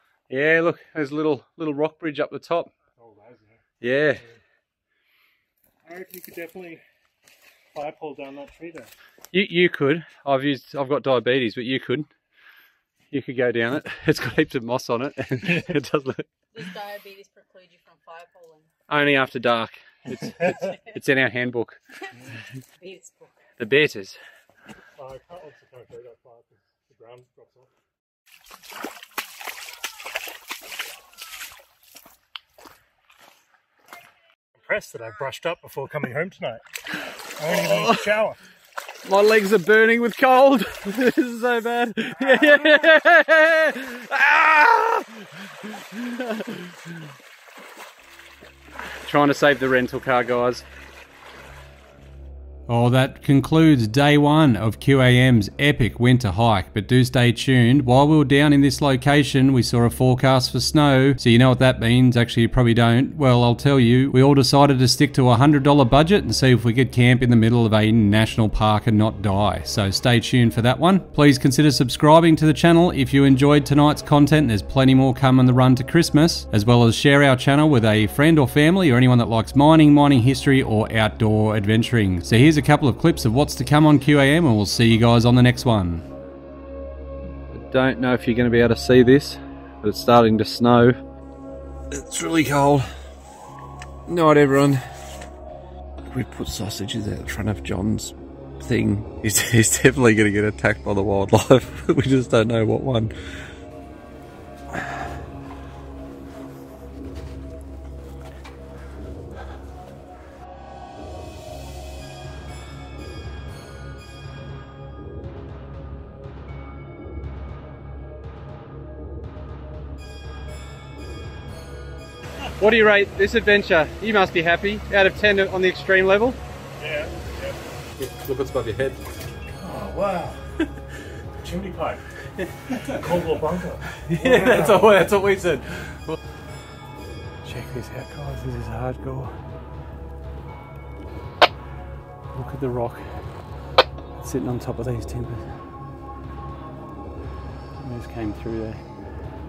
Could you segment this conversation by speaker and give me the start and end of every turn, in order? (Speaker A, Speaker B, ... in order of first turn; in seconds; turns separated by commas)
Speaker A: 0.3-2.7, Speaker B: 3.0-3.6, Speaker A: 3.8-4.2, Speaker B: 5.8-6.8, Speaker B: 7.7-8.9, Speaker A: 9.3-12.1, Speaker A: 13.1-16.3, Speaker C: 16.5-18.7, Speaker A: 18.9-21.8, Speaker C: 20.5-20.8, Speaker C: 22.8-23.4, Speaker A: 23.6-24.2, Speaker B: 25.0-27.7, Speaker B: 34.6-36.6, Speaker B: 37.4-38.4, Speaker A: 37.5-38.1, Speaker A: 39.0-46.9, Speaker A: 49.0-50.6, Speaker A: 52.7-86.0, Speaker A: 87.5-91.0, Speaker A: 91.9-92.9, Speaker A: 94.1-94.8, Speaker A: 96.1-103.5, Speaker A: 122.6-126.4, Speaker B: 126.8-127.6, Speaker A: 128.0-129.0, Speaker B: 129.6-130.4, Speaker B: 131.4-132.0, Speaker B: 132.9-134.9, Speaker A: 134.0-136.2, Speaker A: 137.4-139.3, Speaker A: 142.3-143.1, Speaker A: 144.2-145.5, Speaker A: 147.8-148.8